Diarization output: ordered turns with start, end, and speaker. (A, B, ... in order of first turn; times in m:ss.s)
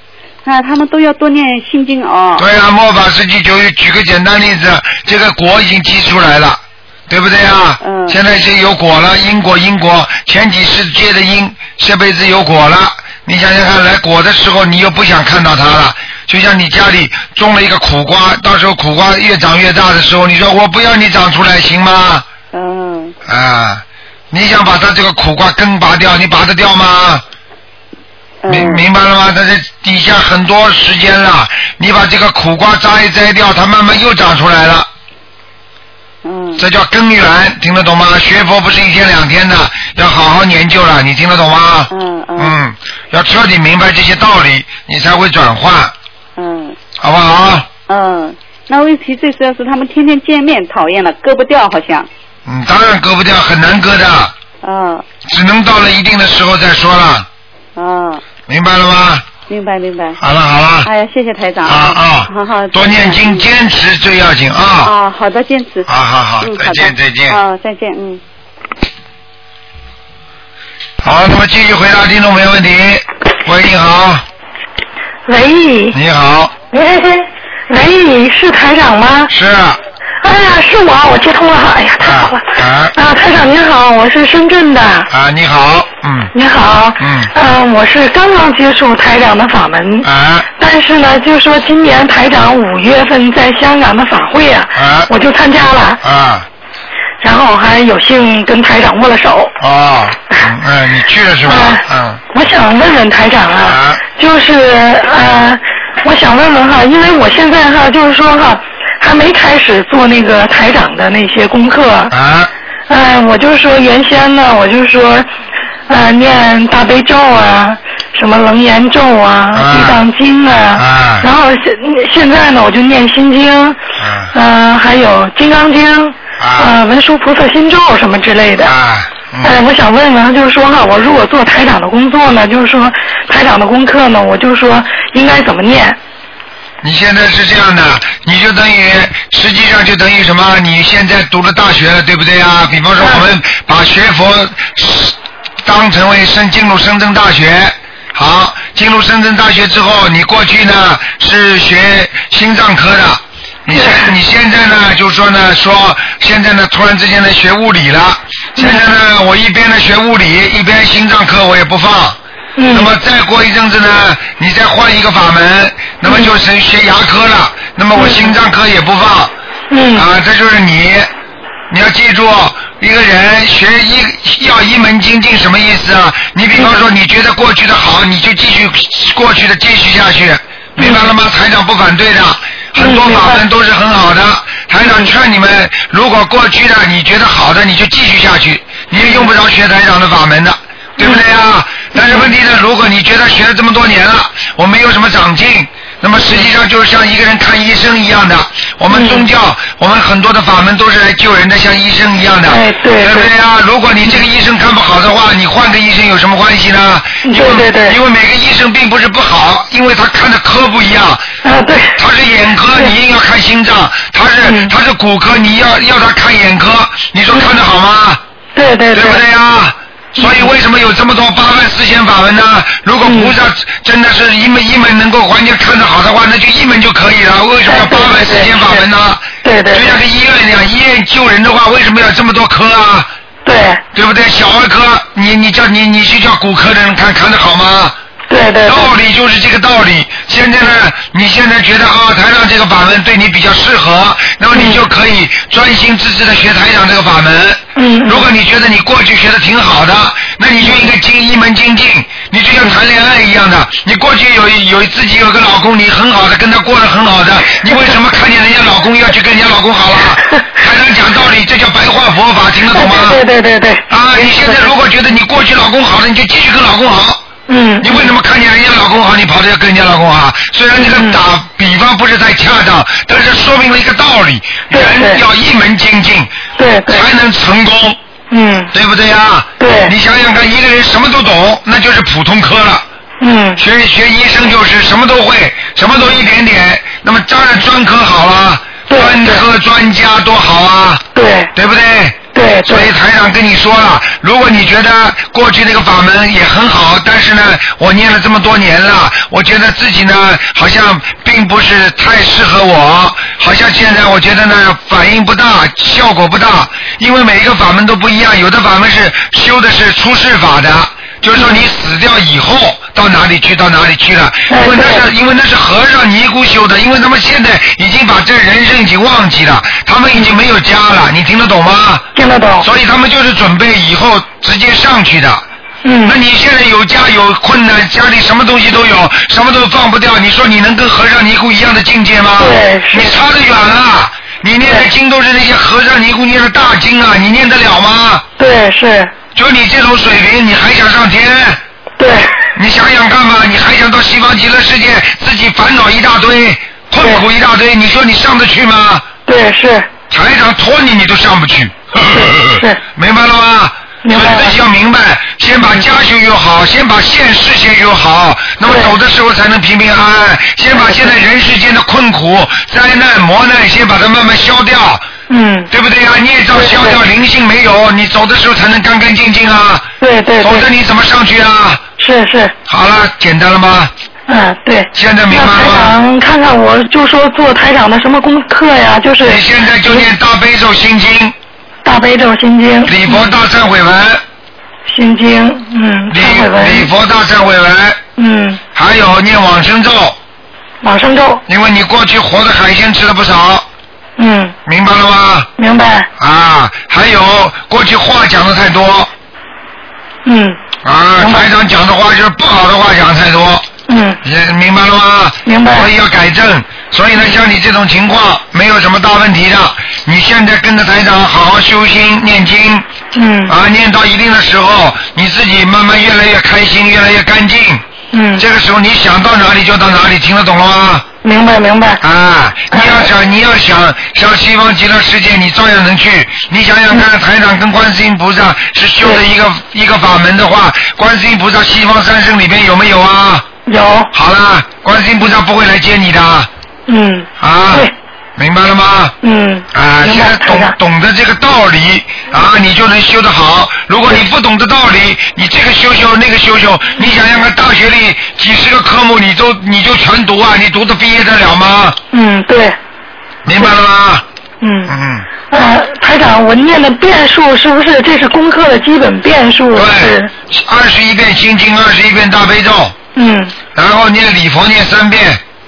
0:00.4-0:02.5 A
0:02.4-0:22.2 B
0:07.8-0:08.2 A
0:22.5-0:23.2 A
0:23.3-0:27.2 B
0:28.4-0:28.8 A
0:28.5-0:34.9 B
0:36.2-0:36.6 A
0:36.6-0:45.9 B
0:41.9-0:42.6 A
0:46.4-0:46.8 A
0:47.0-0:47.7 B
0:47.9-0:52.1 A
0:52.5-0:54.3 B
0:54.6-0:55.1 A
0:55.2-0:57.3 B
0:57.8-0:58.2 A
0:58.5-0:59.2 B
0:59.5-1:00.2 A
1:00.2-1:00.9 B
1:00.8-1:03.5 A
1:01.6-1:04.9 B
1:04.8-1:05.9 A
1:05.9-1:07.4 B
1:06.4-1:08.2 A
1:11.0-1:14.2 B
1:15.3-1:16.0 C
1:15.9-1:16.5 B
1:16.7-1:19.3 C
1:19.3-1:19.8 B
1:20.2-1:25.1 C
1:22.0-1:23.0 B
1:25.1-1:26.3 B
1:26.3-1:36.0 C
1:27.0-1:27.3 B
1:30.0-1:30.5 B
1:34.8-1:35.1 B
1:36.0-1:36.5 B
1:37.2-1:39.6 C
1:39.6-1:42.2 B
1:41.5-1:52.1 C
1:43.6-1:44.0 B
1:52.1-1:52.5 B
1:52.9-1:55.3 C
1:55.9-2:03.8 C
1:59.5-2:00.0 B
2:00.8-2:01.3 B
2:04.0-2:04.3 B
2:04.3-2:08.7 C
2:06.4-2:06.7 B
2:08.6-2:09.6 B
2:09.4-2:16.0 C
2:16.8-2:42.2 B
2:23.0-2:23.3 C
2:33.7-2:34.1 C
2:38.6-2:38.9 C
2:42.6-2:42.9 C
2:42.7-2:49.3 B
2:46.1-2:46.3 C
2:48.0-2:48.4 C
2:49.7-2:50.1 C
2:49.9-2:51.1 B
2:51.7-3:31.3 B
3:00.8-3:01.1 C
3:02.8-3:03.4 C
3:04.8-3:05.1 C
3:09.0-3:09.3 C
3:11.0-3:11.2 C
3:12.0-3:12.3 C
3:18.9-3:19.3 C
3:22.5-3:23.3 C
3:27.2-3:28.0 C
3:31.4-3:32.0 C
3:32.0-3:38.2 B
3:34.4-3:34.7 C
3:38.6-3:39.2 C
3:38.9-3:53.1 B
3:40.2-3:40.6 C
3:43.0-3:43.4 C
3:47.6-3:48.8 C
3:49.4-3:50.0 C
3:53.4-3:53.8 C
3:53.9-3:58.0 B
3:58.3-3:58.9 C
3:58.7-4:23.2 B
4:04.5-4:04.8 C
4:07.8-4:08.3 C
4:22.7-4:24.7 C
4:23.9-4:27.2 B
4:27.5-4:28.1 C
4:27.8-4:36.4 B
4:30.8-4:31.2 C
4:34.7-4:35.2 C
4:36.6-4:37.1 C
4:36.9-4:38.0 B
4:38.3-4:38.7 C
4:38.7-4:42.8 B
4:39.6-4:39.9 C
4:43.2-4:43.6 C
4:43.6-5:22.1 B
4:48.9-4:49.4 C
4:51.2-4:51.5 C
4:52.3-4:52.9 C
5:11.4-5:11.6 C
5:14.5-5:15.0 C
5:22.2-5:22.7 C
5:22.6-5:25.4 B
5:25.8-5:26.2 C
5:26.0-5:38.2 B
5:32.4-5:33.2 C
5:38.4-5:39.1 C
5:39.4-5:41.6 B
5:42.0-5:42.4 C
5:42.6-5:49.1 B
5:47.0-5:47.2 C
5:49.3-5:49.9 C
5:50.1-6:05.1 B
5:52.0-5:52.8 C
5:54.0-5:54.6 C
5:58.6-5:59.0 C
6:00.8-6:01.1 C
6:05.3-6:05.7 C
6:05.7-6:11.8 B
6:06.5-6:07.0 C
6:10.0-6:10.7 C
6:12.0-6:12.5 C
6:12.7-6:13.9 B
6:14.3-6:20.1 C
6:14.9-6:16.0 B
6:19.2-6:21.3 B
6:21.8-6:23.4 C
6:22.8-6:24.2 B
6:24.9-6:26.9 C
6:26.1-6:28.0 B
6:28.2-6:28.6 C
6:28.8-6:30.2 B
6:30.8-6:31.4 C
6:31.5-6:33.7 B
6:34.2-6:34.6 C
6:34.7-6:35.5 B
6:35.6-6:36.1 C
6:36.2-6:39.1 B
6:40.2-6:40.6 C
6:40.8-6:43.7 B
6:41.2-6:41.5 C
6:43.9-6:44.2 C
6:44.2-6:52.9 B
6:45.4-6:45.9 C
6:53.2-6:53.5 C
6:53.5-6:57.8 B
6:58.1-6:58.4 C
6:58.4-7:01.1 B
7:01.2-7:02.0 C
7:02.0-7:13.5 B
7:02.7-7:03.1 C
7:13.7-7:14.1 C
7:14.1-7:16.5 B
7:16.9-7:17.9 C
7:17.4-7:19.2 B
7:19.2-7:20.8 C
7:19.7-7:32.0 B
7:32.1-7:32.8 C
7:33.4-7:34.2 B
7:34.6-7:35.0 C
7:34.9-7:35.3 B
7:35.5-7:40.3 C
7:39.7-7:43.0 B
7:43.2-7:43.6 C
7:43.8-7:45.4 B